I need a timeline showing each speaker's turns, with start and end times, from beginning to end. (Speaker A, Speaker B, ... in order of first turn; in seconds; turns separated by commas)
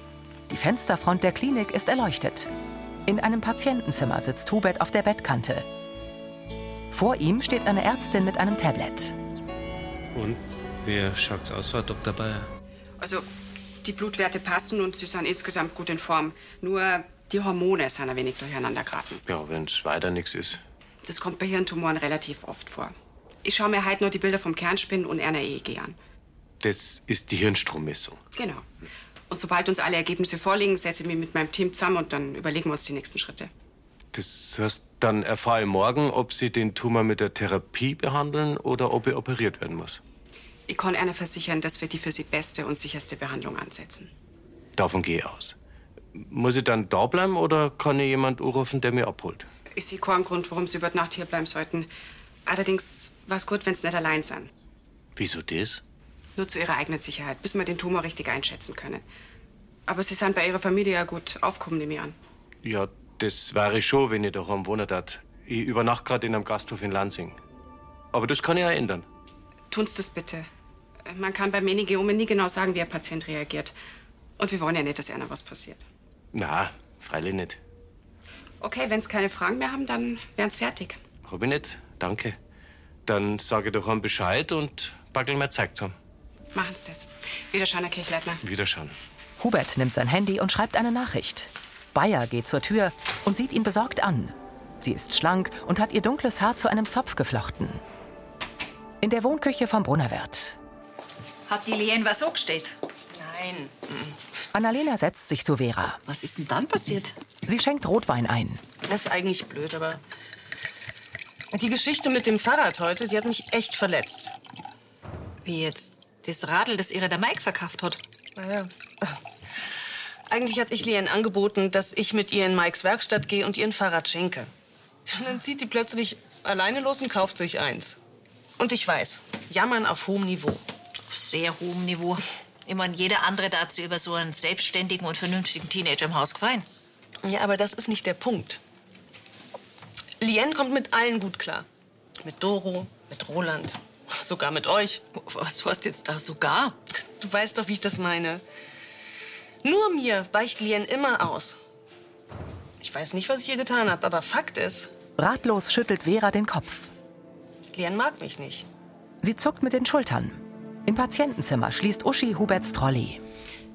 Speaker A: 0.5-2.5, Speaker A: 3.1-5.7, Speaker A: 6.9-9.2, Speaker B: 10.1-12.5, Speaker C: 13.0-13.3, Speaker C: 13.8-19.2, Speaker B: 19.3-20.6, Speaker C: 21.1-26.0, Speaker B: 26.6-28.2, Speaker C: 28.4-28.7, Speaker C: 29.3-33.5, Speaker B: 34.1-40.0, Speaker C: 40.7-44.1, Speaker B: 44.8-45.5, Speaker B: 46.1-49.5, Speaker C: 49.8-51.9, Speaker C: 52.5-54.5, Speaker B: 55.2-55.8, Speaker C: 56.4-59.0, Speaker C: 59.9-62.2, Speaker B: 62.6-67.4, Speaker B: 68.1-69.0, Speaker C: 69.7-70.5, Speaker C: 71.1-73.7, Speaker C: 74.4-75.8, Speaker B: 76.3-77.6, Speaker C: 78.6-81.0, Speaker B: 81.2-82.4, Speaker B: 83.1-85.9, Speaker C: 86.5-88.4, Speaker B: 88.4-89.0, Speaker A: 89.4-97.8, Speaker A: 99.0-100.6, Speaker D: 101.5-102.8, Speaker E: 103.1-104.2, Speaker A: 104.5-106.0, Speaker D: 106.1-107.1, Speaker A: 107.5-108.6, Speaker E: 108.8-110.0, Speaker E: 111.5-114.3, Speaker D: 115.4-118.0, Speaker E: 118.4-119.2, Speaker E: 120.3-124.5, Speaker E: 125.1-128.0, Speaker E: 128.6-130.7, Speaker D: 131.1-136.7, Speaker E: 137.2-138.6, Speaker E: 140.2-141.7, Speaker E: 142.2-145.0, Speaker D: 145.1-146.8, Speaker E: 146.9-148.4, Speaker E: 149.6-151.6, Speaker E: 152.8-154.9, Speaker A: 155.2-156.9, Speaker E: 157.7-158.7, Speaker A: 159.2-163.2